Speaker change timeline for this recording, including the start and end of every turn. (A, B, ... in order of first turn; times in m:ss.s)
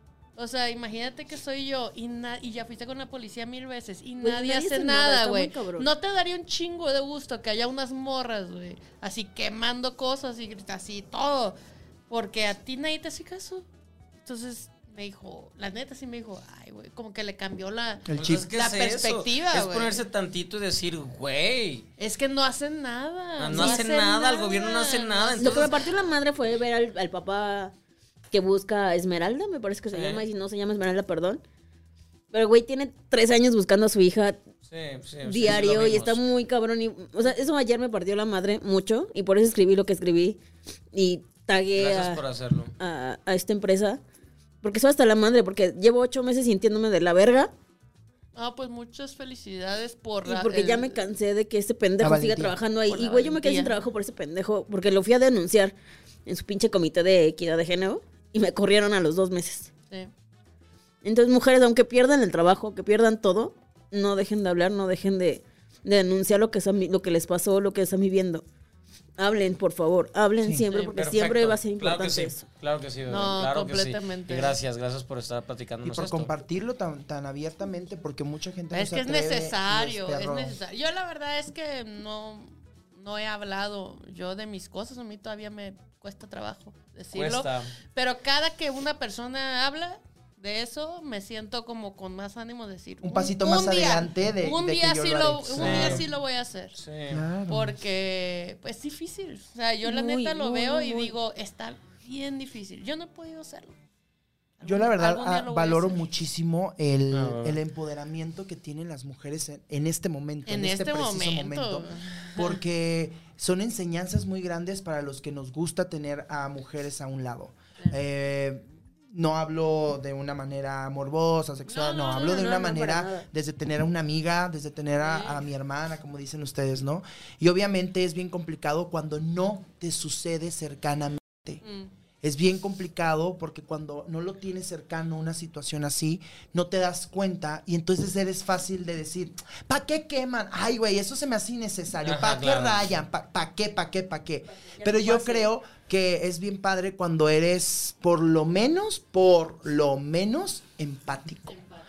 0:00.4-0:11.6 A
0:04.2-0:05.9 B
0:12.1-0:13.6 A
0:14.2-0:20.0 A
0:18.1-0:18.5 C
0:18.2-0:21.8 D
0:22.0-0:25.8 A
0:23.4-0:25.8 D
0:23.5-0:23.8 B
0:25.4-0:27.7 B
0:28.3-0:31.4 B
0:29.9-0:30.2 D
0:32.3-0:34.4 B
0:34.7-0:36.2 D
0:35.2-0:40.4 B
0:40.9-0:42.2 B
0:41.8-0:42.7 D
0:42.8-0:44.0 B
0:44.6-0:47.5 B
0:48.3-0:51.0 A
0:50.2-0:55.7 B
0:52.0-0:52.6 C
0:52.9-0:53.8 A
0:56.2-0:59.7 B
1:01.0-1:08.4 B
1:09.2-1:12.4 B
1:10.7-1:16.3 D
1:13.1-1:14.6 A
1:15.8-1:20.6 C
1:18.7-1:36.8 A
1:27.1-1:27.7 D
1:33.0-1:36.0 C
1:35.6-1:36.0 D
1:36.8-1:37.2 D
1:37.1-1:37.8 C
1:37.5-1:43.7 A
1:39.8-1:41.2 B
1:44.6-1:46.1 A
1:44.6-2:11.6 C
1:47.1-1:47.6 D
1:50.4-1:52.6 A
2:01.7-2:02.6 A
2:02.1-2:03.2 B
2:05.0-2:05.4 A
2:11.6-2:11.9 A
2:12.2-2:31.6 C
2:22.0-2:22.9 D
2:24.7-2:25.5 B